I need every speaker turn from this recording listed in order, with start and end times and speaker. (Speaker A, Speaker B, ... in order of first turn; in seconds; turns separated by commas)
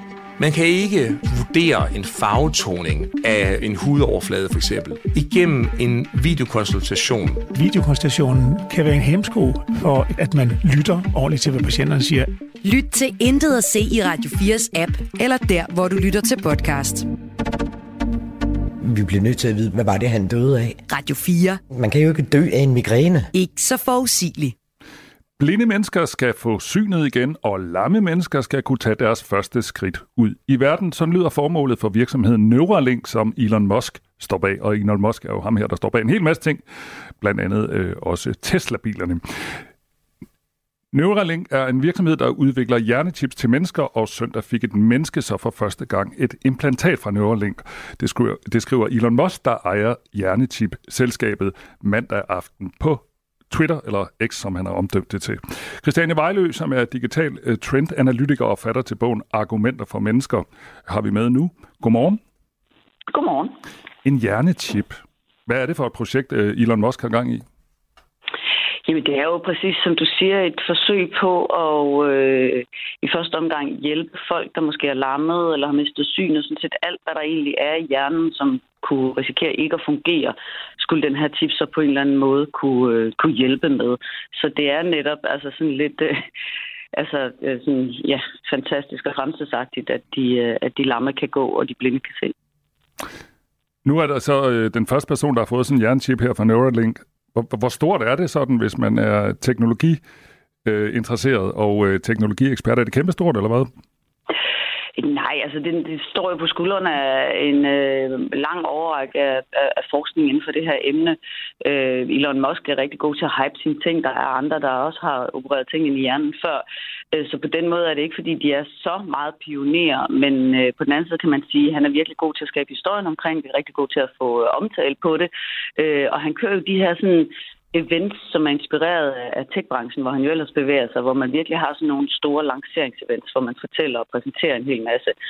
Speaker A: 0.4-7.5, Speaker B: 7.5-12.3, Speaker C: 12.6-17.1, Speaker D: 18.8-20.8, Speaker C: 20.9-21.6, Speaker D: 21.7-23.3, Speaker C: 23.4-24.6, Speaker E: 25.4-36.6, Speaker E: 37.2-39.2, Speaker E: 40.9-62.2, Speaker F: 63.1-63.6, Speaker E: 64.0-67.5, Speaker F: 68.8-86.2, Speaker F: 86.9-92.3, Speaker E: 93.8-100.0, Speaker E: 100.7-103.7, Speaker F: 105.0-135.1